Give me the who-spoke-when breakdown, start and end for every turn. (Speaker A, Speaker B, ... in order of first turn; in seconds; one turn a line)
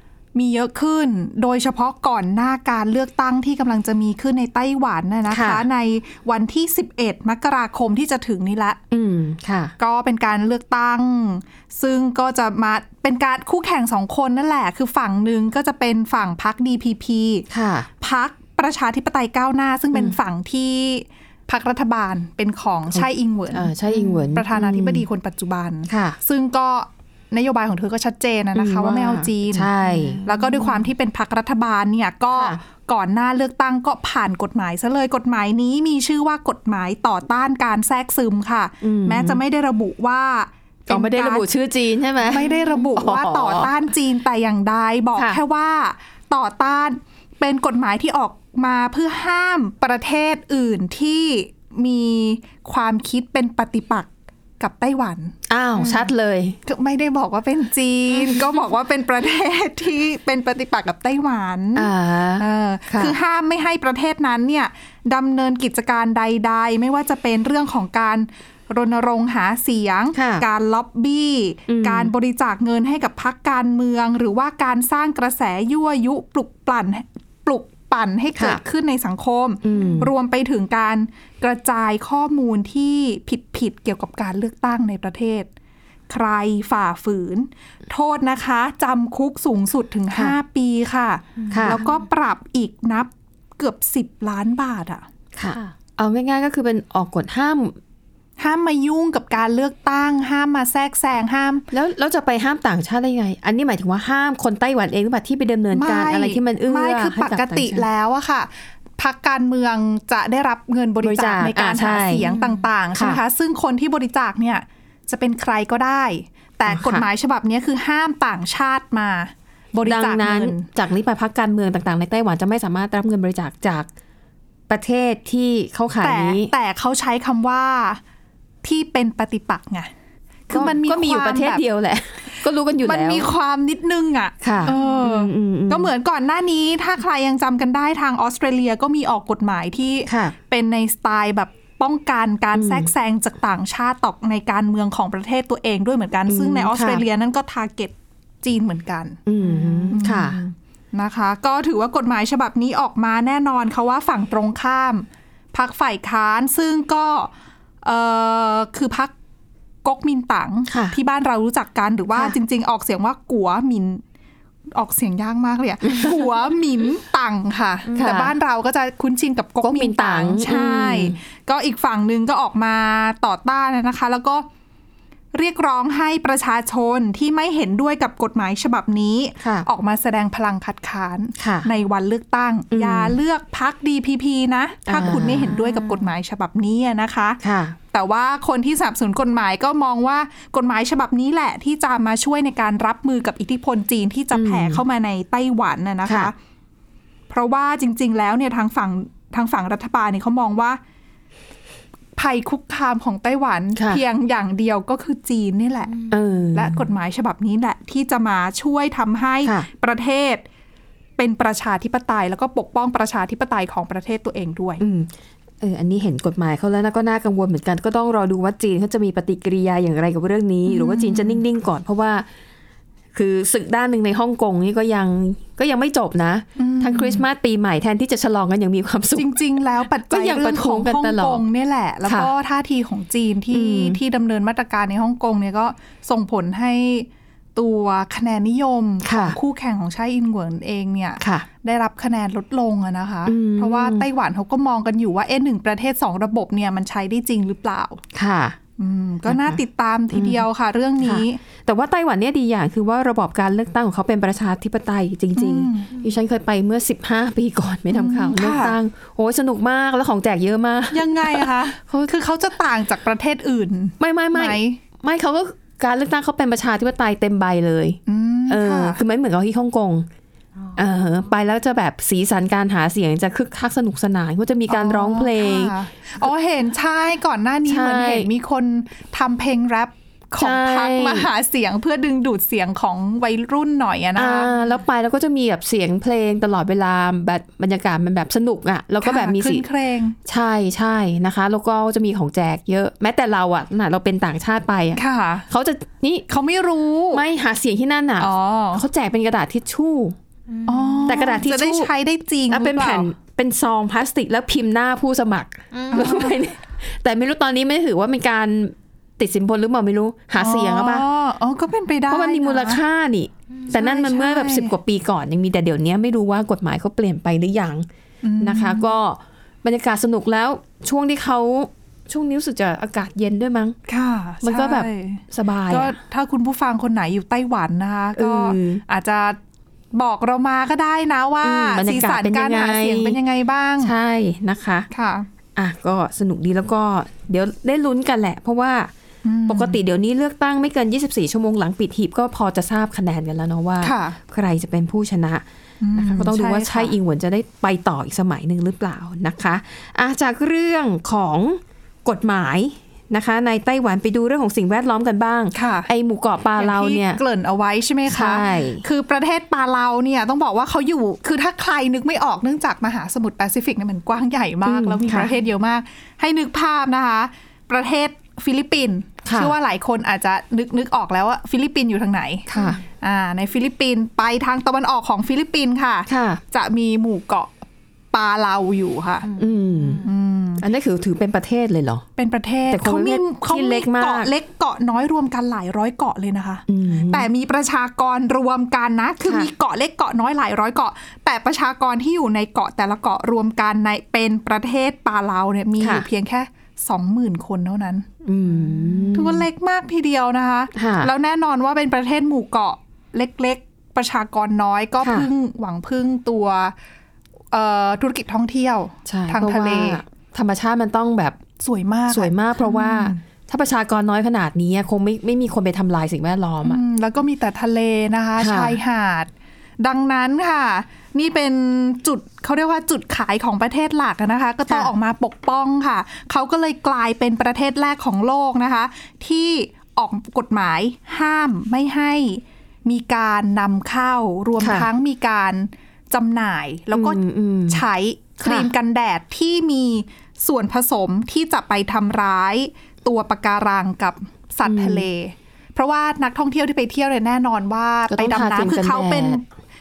Speaker A: 0.3-8.8
Speaker B: 5.3-5.6
Speaker B: 8.9-9.7
Speaker A: 9.8-17.4
Speaker B: 17.5-17.9
Speaker A: 18.0-41.5
Speaker B: 22.9-25.0
Speaker B: 25.9-26.2
Speaker B: 28.5-30.7
Speaker B: 32.3-32.6
Speaker B: 38.8-39.4
Speaker B: 40.9-43.7
Speaker A: 42.2-54.1
Speaker A: 54.6-56.1
Speaker B: 55.5-56.6
Speaker A: 56.6-85.5
Speaker B: 58.1-58.6
Speaker B: 61.7-63.1
Speaker B: 70.1-70.5
Speaker B: 71.7-72.1
Speaker B: 78.3-78.6
Speaker B: 79.6-80.1
Speaker A: 86.1-95.0
Speaker B: 90.1-90.4
Speaker B: 91.5-91.8
Speaker B: 95.3-97.8
Speaker A: 98.4-101.6
Speaker B: 101.7-107.8
Speaker A: 105.7-120.7
Speaker B: 111.0-112.3
Speaker B: 112.9-113.2
Speaker B: 116.7-117.0
Speaker B: 119.8-123.9
Speaker B: 124.7-126.5
Speaker A: 126.0-128.0
Speaker A: 128.6-129.9
Speaker A: 130.5-131.6
Speaker B: 130.5-133.3
Speaker A: 132.8-157.3
Speaker B: 134.4-135.9
Speaker B: 140.1-140.3
Speaker B: 142.5-142.9
Speaker B: 146.3-147.0
Speaker B: 149.2-150.4
Speaker A: 157.8-159.1
Speaker A: 159.8-164.0
Speaker B: 160.7-161.0
Speaker A: 164.7-174.4
Speaker B: 165.9-166.3
Speaker B: 167.9-168.3
Speaker B: 169.6-171.2
Speaker A: 175.3-187.4
Speaker B: 179.4-179.7
Speaker B: 181.4-181.7
Speaker B: 182.7-183.2
Speaker B: 184.9-185.8
Speaker B: 187.4-187.8
Speaker A: 187.9-196.3
Speaker B: 194.3-194.8
Speaker B: 196.1-196.3
Speaker A: 197.3-200.8
Speaker A: 202.2-210.4
Speaker B: 203.8-204.0
Speaker B: 206.1-206.8
Speaker A: 211.2-214.8
Speaker B: 214.8-215.1
Speaker B: 215.6-222.2
Speaker A: 220.6-221.4
Speaker B: 223.1-229.4
Speaker A: 226.6-227.2
Speaker A: 229.1-248.0
Speaker B: 230.1-231.4
Speaker B: 232.0-232.3
Speaker B: 233.5-234.0
Speaker B: 239.0-239.4
Speaker B: 241.2-241.5
Speaker B: 243.2-244.1
Speaker B: 248.1-248.6
Speaker A: 248.8-251.4
Speaker B: 249.3-249.6
Speaker B: 250.1-250.4
Speaker B: 251.0-262.1
Speaker A: 255.3-256.0
Speaker A: 257.9-258.7
Speaker A: 260.9-264.8
Speaker B: 264.0-270.1
Speaker A: 268.1-269.0
Speaker B: 270.7-275.7
Speaker A: 274.7-284.6
Speaker B: 277.7-278.3
Speaker B: 280.4-281.3
Speaker B: 284.1-289.6
Speaker A: 289.0-290.2
Speaker B: 290.3-296.3
Speaker A: 294.9-295.5
Speaker A: 296.3-297.2
Speaker B: 297.1-300.2
Speaker A: 298.2-298.8
Speaker A: 300.6-303.1
Speaker B: 301.0-301.9
Speaker B: 302.5-311.1
Speaker A: 305.9-306.4
Speaker A: 310.4-312.8
Speaker B: 312.1-317.9
Speaker A: 313.7-314.7
Speaker A: 318.2-318.9
Speaker B: 318.4-323.8
Speaker A: 323.9-329.4
Speaker B: 324.4-326.0
Speaker B: 328.1-328.8
Speaker A: 329.9-333.9
Speaker B: 331.4-333.2
Speaker B: 333.8-334.9
Speaker A: 334.9-335.3
Speaker B: 335.6-338.9
Speaker A: 339.2-339.8
Speaker B: 339.5-357.2
Speaker A: 343.8-344.2
Speaker A: 345.8-346.9
Speaker A: 355.5-355.9
Speaker A: 356.6-377.6
Speaker B: 358.1-358.8
Speaker B: 364.6-365.3
Speaker B: 369.2-369.5
Speaker B: 372.5-372.8
Speaker B: 376.1-376.4
Speaker A: 378.1-379.4
Speaker B: 379.3-380.1
Speaker A: 380.0-380.6
Speaker B: 380.6-382.0
Speaker A: 382.2-406.7
Speaker B: 382.7-384.3
Speaker B: 386.7-387.3
Speaker B: 389.2-389.5
Speaker B: 395.8-396.1
Speaker B: 398.2-399.4
Speaker B: 400.7-401.1
Speaker B: 405.0-405.3
Speaker A: 407.5-410.0
Speaker B: 409.1-411.4
Speaker A: 411.6-413.2
Speaker B: 412.1-416.8
Speaker A: 416.6-449.4
Speaker B: 418.4-418.8
Speaker B: 424.7-424.9
Speaker B: 434.6-434.9
Speaker B: 436.9-437.8
Speaker B: 438.4-438.7
Speaker B: 444.6-445.1
Speaker B: 448.1-449.4